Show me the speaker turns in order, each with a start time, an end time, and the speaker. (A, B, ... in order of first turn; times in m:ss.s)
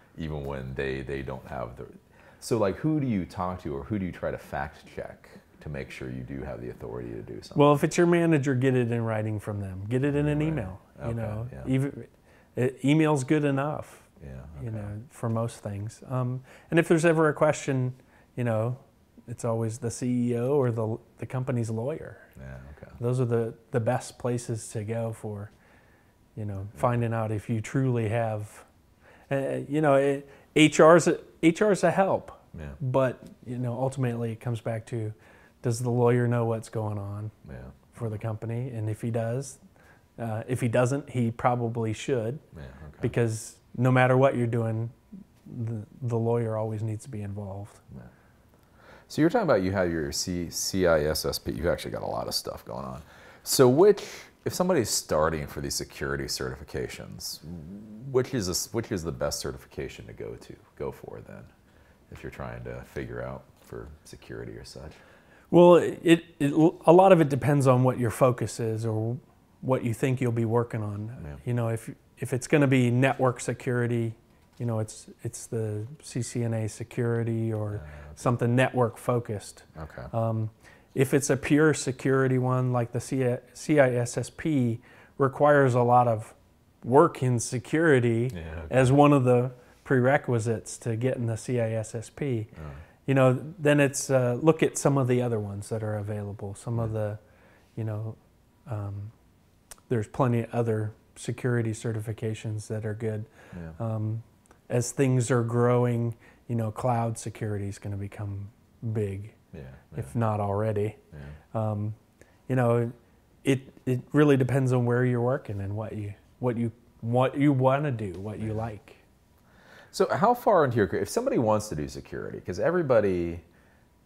0:00.2-0:07.6 A
0:07.6-0:22.3 B
0:10.1-0:11.7 A
0:14.2-0:14.9 A
0:22.4-0:23.0 A
0:23.0-0:25.5 B
0:26.4-0:28.7 B
0:29.3-0:37.3 B
0:37.4-0:38.2 A
0:37.9-0:39.6 B
0:40.2-0:42.4 B
0:42.5-0:43.1 A
0:43.0-0:47.8 B
0:49.1-1:01.5 A
1:02.1-1:05.0 A
1:05.5-1:32.5 B
1:17.7-1:18.2 A
1:19.8-1:20.1 A
1:28.3-1:28.8 A
1:33.1-1:37.2 B
1:37.8-1:39.1 B
1:39.9-1:49.4 B
1:43.5-1:43.8 A
1:49.5-1:50.1 A
1:50.0-1:51.0 B
1:51.5-1:52.0 B
1:52.5-1:59.0 B
1:59.9-2:03.4 A